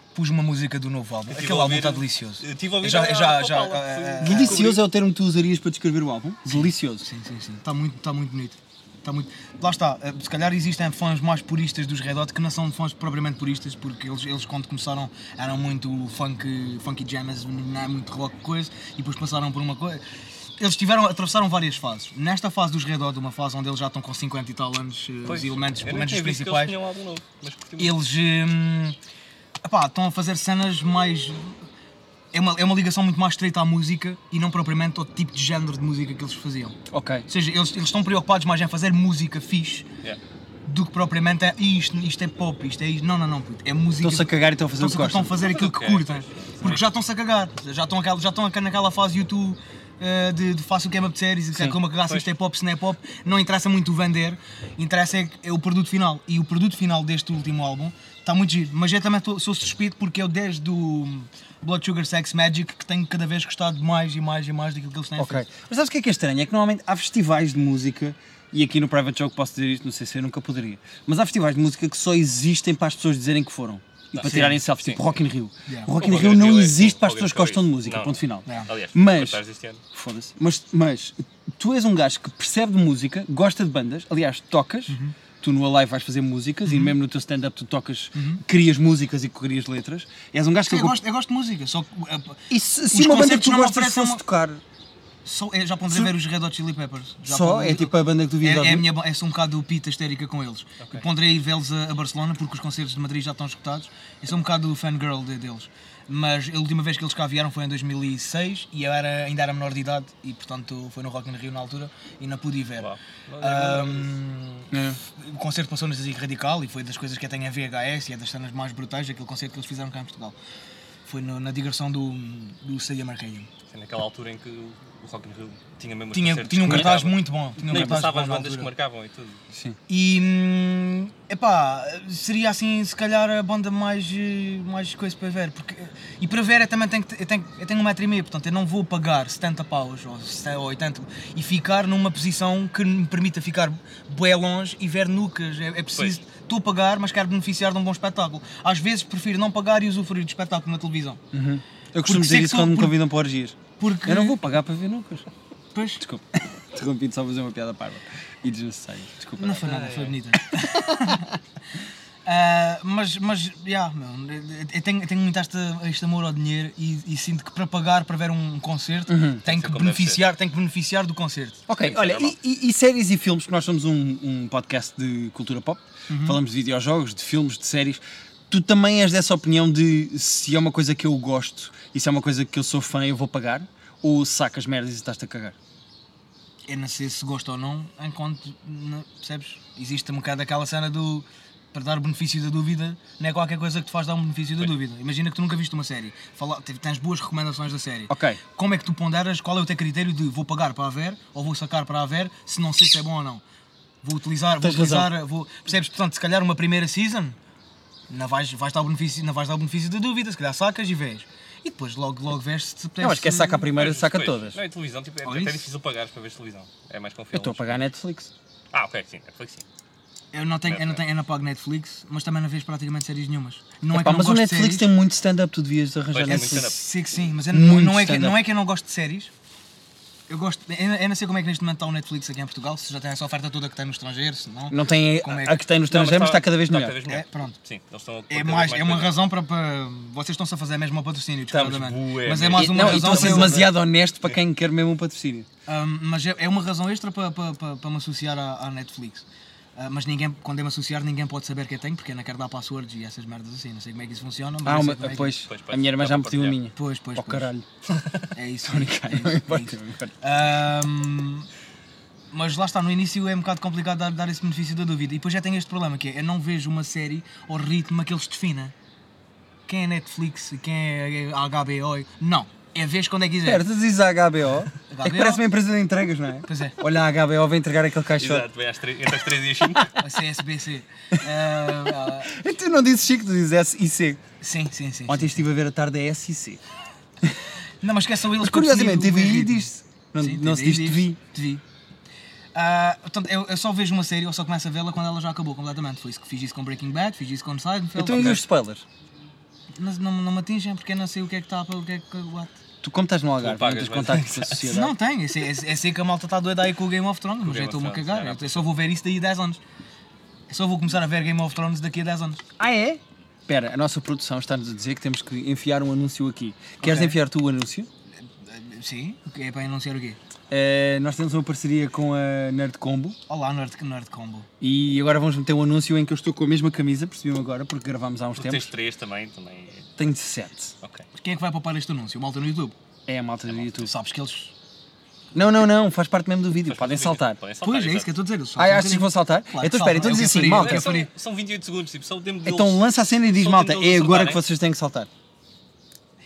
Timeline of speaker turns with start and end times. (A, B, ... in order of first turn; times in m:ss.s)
0:00.2-0:04.7 A
0:01.3-0:04.8 B
0:04.2-0:07.1 C
0:06.5-0:20.0 A
0:20.6-0:26.8 A
0:25.3-0:28.0 B
0:27.8-0:29.0 A
0:29.6-0:31.6 A
0:32.3-0:36.8 A
0:36.9-0:37.3 C
0:37.3-0:39.9 A
0:40.7-1:05.4 A
0:44.0-0:45.4 C
0:45.4-0:46.8 B
0:52.1-0:52.3 B
1:05.2-1:19.4 C
1:14.1-1:15.2 B
1:14.2-1:14.6 A
1:15.7-1:15.9 A
1:16.0-1:19.8 B
1:19.9-1:31.0 C
1:24.9-1:25.2 A
1:26.7-1:26.9 A
1:28.1-1:28.4 A
1:30.7-1:34.2 A
1:32.5-1:34.6 C
1:35.2-2:00.4 A
1:37.3-1:38.9 C
1:52.8-1:54.2 B
1:54.7-1:55.0 C
2:01.1-2:03.5 A
2:03.7-2:09.4 B
2:06.1-2:08.7 A
2:06.6-2:06.9 C
2:09.9-2:31.2 A
2:31.3-2:35.3 C
2:32.0-2:33.0 A
2:33.8-2:34.4 A
2:35.7-2:36.0 A
2:36.0-2:39.7 C
2:39.4-2:41.4 A
2:39.6-2:40.2 B
2:40.6-2:41.2 C
2:42.2-2:51.6 A
2:49.1-2:49.4 C
2:49.4-2:50.2 B
2:51.7-3:05.6 C
2:51.8-2:52.4 B
2:56.1-2:56.4 A
3:06.7-3:23.4 A
3:18.1-3:18.4 C
3:24.0-3:27.4 A
3:24.6-3:25.1 C
3:28.1-3:33.6 A
3:33.0-3:34.6 C
3:33.7-3:37.8 B
3:35.2-3:35.6 A
3:37.3-3:38.3 C
3:38.7-3:39.6 B
3:40.3-3:44.9 A
3:40.7-3:41.0 B
3:43.9-3:46.7 C
3:46.1-3:46.8 B
3:46.3-3:49.3 A
3:47.5-3:48.4 C
3:50.3-3:55.6 A
3:54.7-3:57.0 C
3:55.8-3:59.2 B
3:57.1-3:57.6 A
3:58.3-4:03.7 A
4:01.5-4:03.7 B
4:02.5-4:05.5 C
4:05.7-4:09.2 A
4:09.8-4:15.4 A
4:14.6-4:17.7 C
4:15.4-4:16.6 B
4:16.8-4:17.5 A
4:17.9-4:18.3 B
4:18.3-4:21.5 A
4:18.6-4:20.2 C
4:22.3-4:28.7 A
4:29.7-4:33.6 A
4:33.4-4:38.5 C
4:34.9-4:35.4 A
4:36.5-4:36.8 A
4:38.2-4:39.9 B
4:40.0-4:42.3 A
4:41.7-4:44.2 C
4:44.4-4:45.4 A
4:45.1-4:46.6 C
4:47.8-4:51.6 A
4:48.4-4:51.2 C
4:52.5-4:58.4 A
4:58.0-4:58.8 C
4:58.1-4:58.4 B
4:59.8-5:02.6 A
5:02.8-5:05.0 C
5:03.4-5:04.8 B
5:04.7-5:09.6 A
5:07.4-5:08.7 B
5:10.5-5:12.4 A
5:12.6-5:17.9 C
5:16.8-5:17.2 A
5:18.4-5:20.2 A
5:20.5-5:23.2 C
5:23.3-5:24.5 A
5:24.6-5:28.7 C
5:28.4-5:29.9 B
5:30.0-5:30.8 C
5:31.2-5:32.8 A
5:33.1-5:33.9 C
5:33.8-5:34.5 A
5:35.3-5:37.4 C
5:36.7-5:38.1 B
5:37.6-5:41.1 A
5:38.6-5:40.9 C
5:40.0-5:44.4 B
5:42.4-5:45.1 C